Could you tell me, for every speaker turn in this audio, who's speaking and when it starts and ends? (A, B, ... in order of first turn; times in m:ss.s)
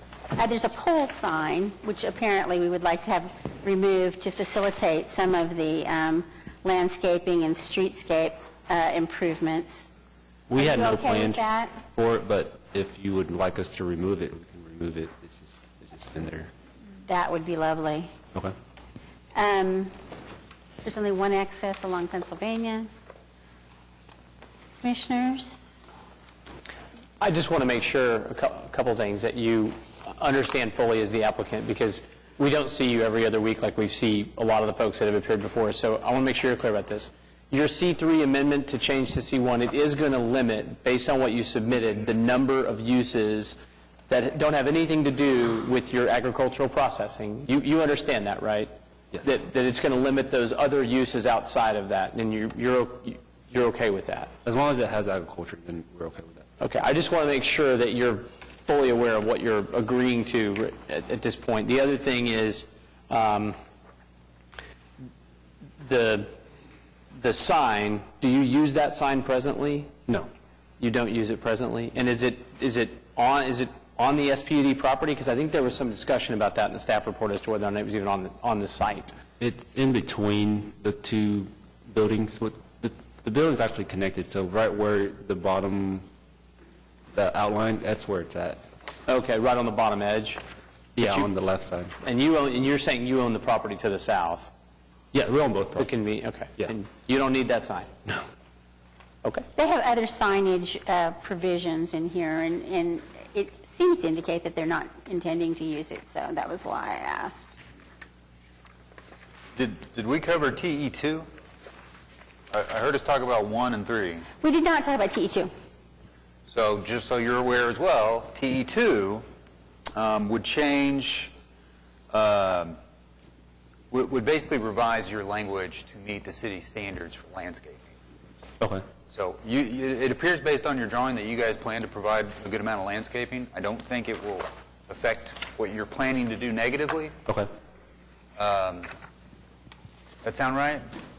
0:00.4-0:09.9 A
0:10.5-0:16.5 B
0:10.6-0:11.8 A
0:17.1-0:18.1 A
0:19.4-0:19.9 A
0:20.8-0:22.9 A
0:24.8-0:25.8 A
0:27.2-0:43.6 C
0:44.1-0:48.7 C
0:49.2-0:54.3 C
0:54.4-0:56.5 B
0:56.6-1:03.6 C
1:05.8-1:06.3 C
1:07.2-1:09.9 C
1:10.8-1:19.2 C
1:19.4-1:26.0 B
1:27.1-1:28.6 B
1:29.1-1:30.4 C
1:31.0-1:31.9 B
1:31.0-1:31.3 C
1:32.0-1:34.5 C
1:35.1-1:35.9 B
1:35.8-1:37.9 C
1:39.6-1:47.6 A
1:49.6-1:51.3 D
1:52.5-1:54.3 D
1:54.4-1:55.5 A
1:56.5-1:59.2 D
1:59.9-2:01.3 D
2:02.1-2:02.8 D
2:03.9-2:07.9 D
2:09.1-2:17.2 D
2:18.4-2:18.9 D
2:20.2-2:20.9 D